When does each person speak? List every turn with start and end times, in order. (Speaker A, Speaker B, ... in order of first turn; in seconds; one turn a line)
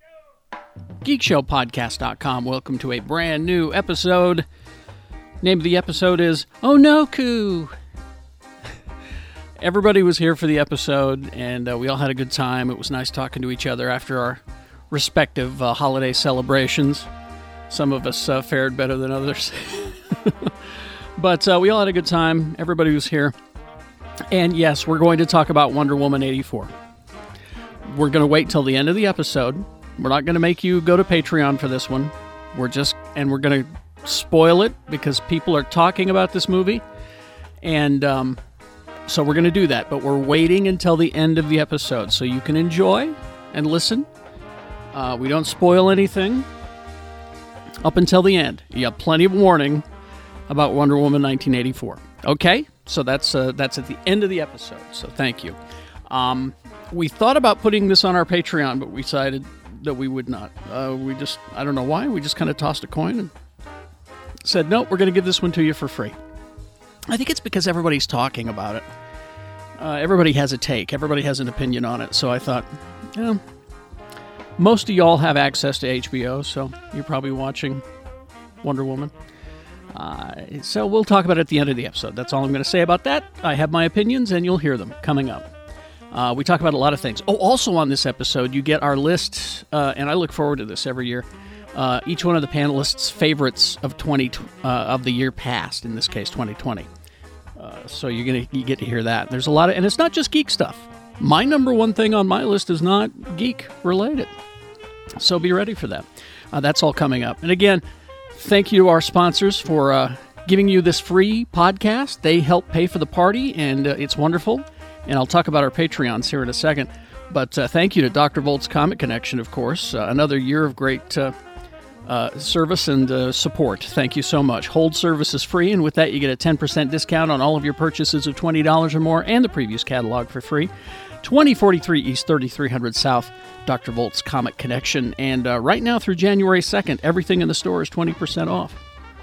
Speaker A: 1.0-4.5
Speaker A: 5.4-7.7
Speaker A: 9.6-17.1
Speaker A: 17.7-20.5
Speaker A: 21.2-23.3
Speaker A: 24.3-26.7
Speaker A: 27.8-36.8
Speaker A: 37.6-38.4
Speaker A: 39.1-44.1
Speaker A: 44.9-46.5
Speaker A: 47.8-49.8
Speaker A: 50.5-55.6
Speaker A: 56.1-63.3
Speaker A: 64.4-66.2
Speaker A: 67.1-68.8
Speaker A: 69.8-73.4
Speaker A: 74.6-77.8
Speaker A: 78.6-79.1
Speaker A: 79.9-85.5
Speaker A: 86.1-96.9
Speaker A: 97.5-104.3
Speaker A: 105.2-107.8
Speaker A: 108.3-121.3
Speaker A: 122.0-130.7
Speaker A: 131.2-138.8